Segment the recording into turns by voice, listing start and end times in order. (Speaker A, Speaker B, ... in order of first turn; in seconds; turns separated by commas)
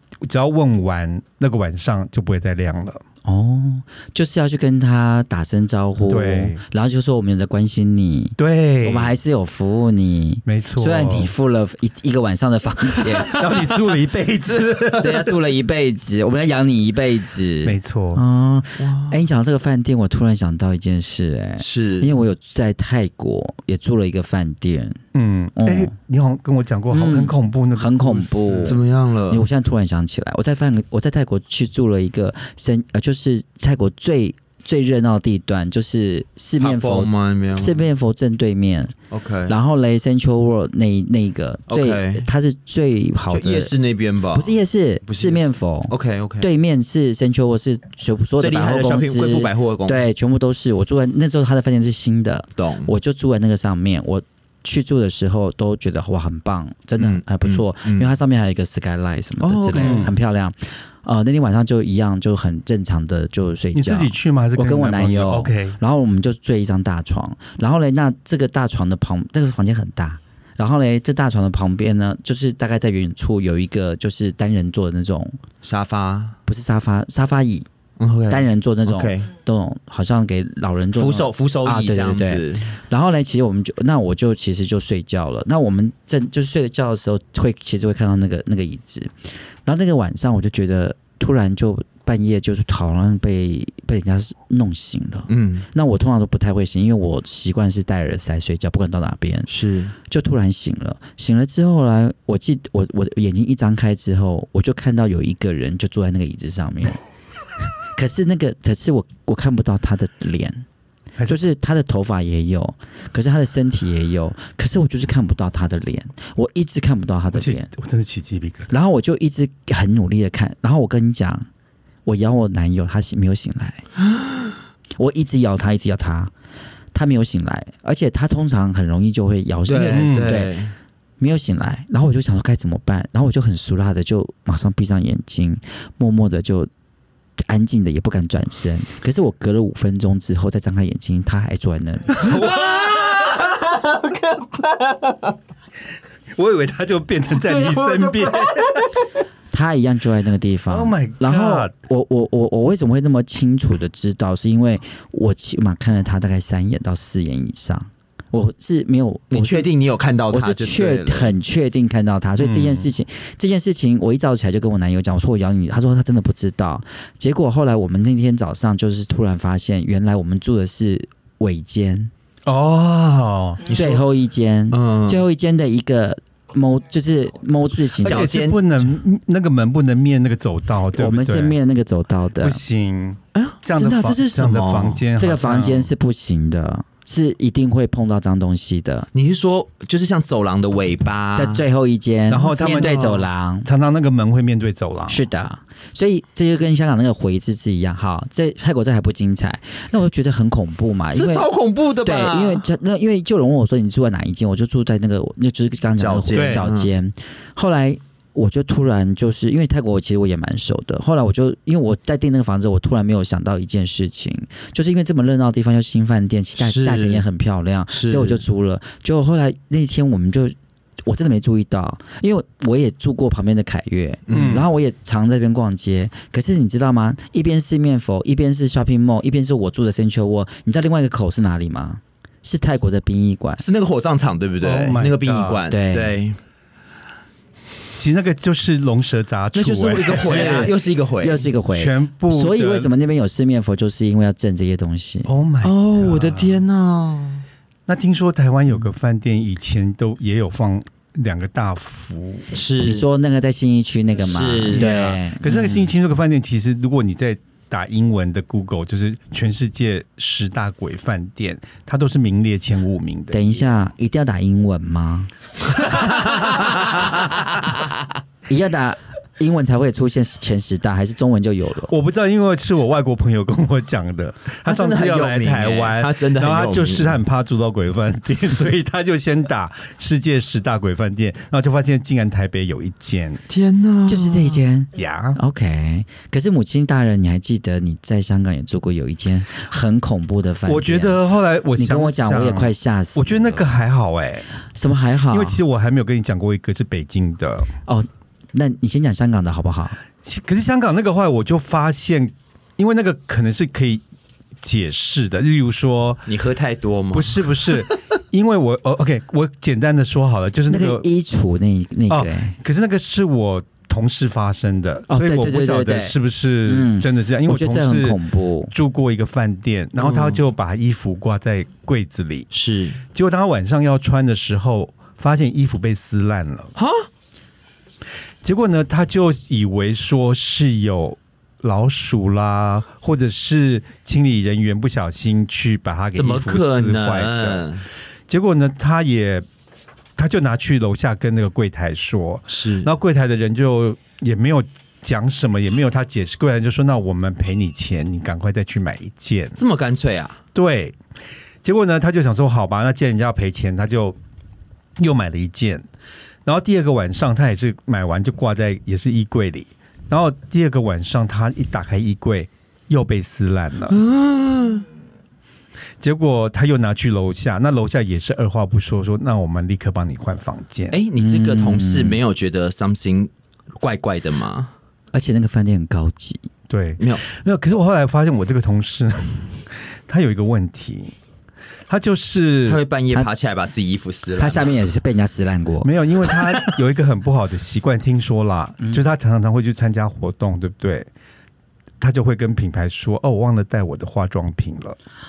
Speaker A: 0.2-3.0, Speaker B: 3.2-13.4, Speaker A: 6.1-6.6, Speaker A: 8.4-9.2, Speaker A: 10.4-11.3, Speaker C: 13.1-13.6, Speaker A: 13.4-15.2, Speaker C: 14.5-15.2, Speaker B: 15.0-25.0, Speaker A: 17.6-18.2, Speaker C: 18.8-19.2, Speaker C: 21.6-22.2, Speaker A: 25.1-28.8, Speaker B: 25.6-25.9, Speaker B: 26.9-38.9, Speaker C: 28.6-29.4, Speaker C: 36.6-37.8, Speaker C: 39.1-39.5, Speaker B: 39.5-43.7, Speaker C: 41.7-42.3, Speaker C: 43.3-46.5, Speaker B: 44.3-75.4, Speaker C: 48.4-50.0, Speaker C: 52.6-52.9, Speaker C: 57.0-58.1, Speaker C: 59.4-60.1, Speaker A: 59.8-60.1, Speaker A: 63.7-65.8, Speaker C: 75.6-76.4, Speaker B: 76.5-77.7, Speaker C: 78.0-79.3, Speaker B: 78.3-89.1, Speaker C: 81.0-82.8, Speaker B: 89.6-99.5, Speaker C: 95.3-95.7, Speaker C: 99.5-99.9, Speaker B: 100.1-107.0, Speaker B: 107.9-110.6, Speaker B: 111.3-117.7, Speaker A: 117.3-118.7, Speaker B: 118.7-121.5, Speaker B: 122.0-123.8, Speaker C: 124.1-124.5, Speaker B: 125.0-126.3, Speaker B: 126.9-130.6, Speaker C: 129.7-130.7, Speaker A: 129.9-130.4, Speaker B: 131.2-136.7, Speaker B: 137.4-142.4, Speaker A: 142.2-143.3, Speaker C: 142.2-145.3, Speaker A: 146.3-148.8, Speaker C: 147.3-148.9, Speaker B: 149.5-159.7, Speaker A: 150.7-151.7, Speaker C: 159.3-161.3, Speaker B: 160.3-172.1, Speaker A: 162.4-162.9, Speaker A: 172.4-173.7, Speaker C: 173.7-174.1, Speaker B: 173.7-178.3, Speaker C: 174.7-175.2, Speaker C: 178.0-178.9, Speaker A: 178.0-181.6, Speaker B: 180.9-182.6, Speaker A: 182.4-185.9, Speaker C: 183.3-185.0, Speaker B: 185.2-189.1, Speaker C: 189.1-191.6, Speaker B: 191.3-193.7, Speaker A: 192.3-195.2, Speaker C: 192.6-193.2, Speaker B: 195.1-201.5, Speaker C: 201.1-202.6, Speaker B: 202.0-220.6, Speaker C: 206.0-206.9, Speaker A: 206.3-206.7, Speaker C: 216.6-217.2, Speaker C: 217.9-218.4, Speaker B: 221.1-233.6, Speaker C: 224.3-224.7, Speaker A: 224.3-224.7, Speaker C: 233.6-236.4, Speaker A: 234.6-235.6, Speaker B: 235.7-236.2, Speaker A: 237.9-240.7, Speaker C: 239.6-241.5, Speaker B: 240.2-245.3, Speaker A: 241.7-242.9, Speaker A: 245.3-246.6, Speaker C: 245.6-247.4, Speaker A: 247.9-252.5, Speaker C: 252.5-253.1, Speaker B: 252.8-255.9, Speaker C: 254.2-254.9, Speaker A: 254.7-263.6, Speaker B: 263.3-265.3, Speaker C: 265.8-267.9, Speaker B: 266.4-267.1, Speaker B: 268.5-271.9, Speaker A: 271.9-283.4, Speaker C: 274.6-277.2, Speaker C: 283.5-284.6, Speaker B: 284.1-291.2, Speaker A: 284.9-285.4, Speaker A: 290.6-294.5, Speaker B: 291.8-293.7, Speaker B: 294.7-295.6, Speaker A: 295.3-297.7, Speaker B: 297.9-300.0, Speaker A: 300.2-304.0, Speaker A: 304.6-306.3, Speaker C: 306.3-308.0, Speaker A: 307.1-311.1, Speaker B: 310.7-312.6, Speaker A: 312.1-322.5, Speaker B: 315.1-318.7, Speaker C: 320.0-320.4, Speaker C: 322.5-323.0, Speaker A: 323.1-326.7, Speaker C: 326.8-327.1, Speaker A: 328.4-337.7, Speaker C: 336.1-337.9, Speaker A: 338.3-339.4, Speaker A: 340.1-349.6, Speaker C: 342.5-342.9, Speaker C: 349.6-350.4, Speaker A: 350.6-350.9, Speaker A: 351.6-354.2, Speaker A: 355.0-355.9, Speaker A: 356.4-364.0, Speaker C: 363.9-364.9, Speaker A: 366.0-371.0, Speaker C: 370.9-374.7, Speaker B: 371.2-372.2, Speaker B: 375.1-376.5, Speaker A: 376.7-381.1, Speaker A: 381.9-382.8, Speaker C: 382.6-384.8, Speaker B: 384.4-386.4, Speaker A: 385.8-391.1, Speaker A: 392.0-395.0